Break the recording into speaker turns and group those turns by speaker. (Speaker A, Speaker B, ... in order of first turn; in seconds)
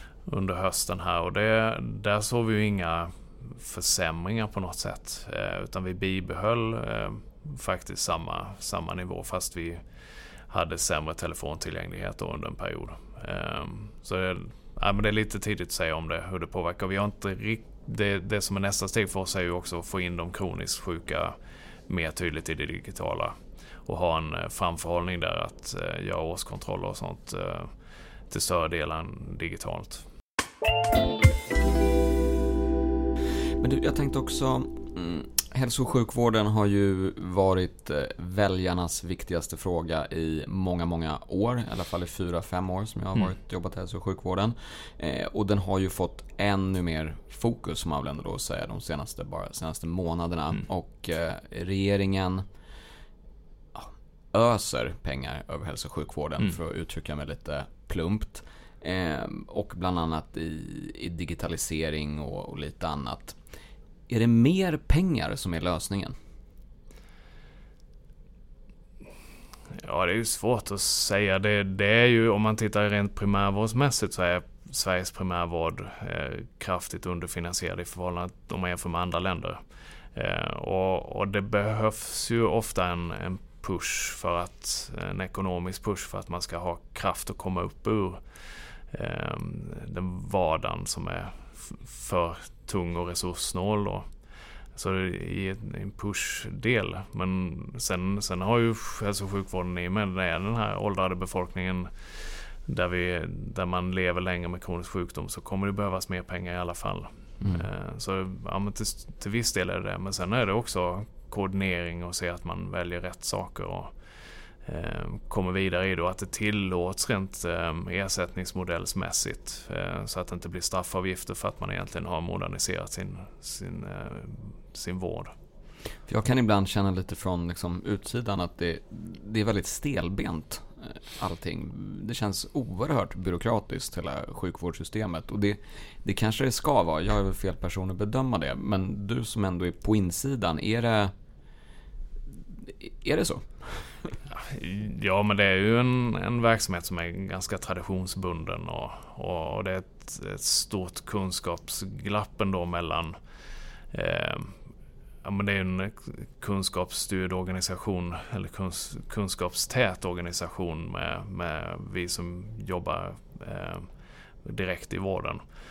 Speaker A: 0.2-9.8, 10.5-21.4, 21.9-27.7, 28.3-30.1, 69.7-79.6, 80.1-94.1, 94.8-114.0, 114.6-125.3, 144.3-153.2, 153.9-154.6, 155.2-163.9, 164.4-165.4
Speaker B: 33.6-52.5, 53.7-63.4, 64.1-66.2, 107.4-107.7, 126.1-141.1, 142.3-144.2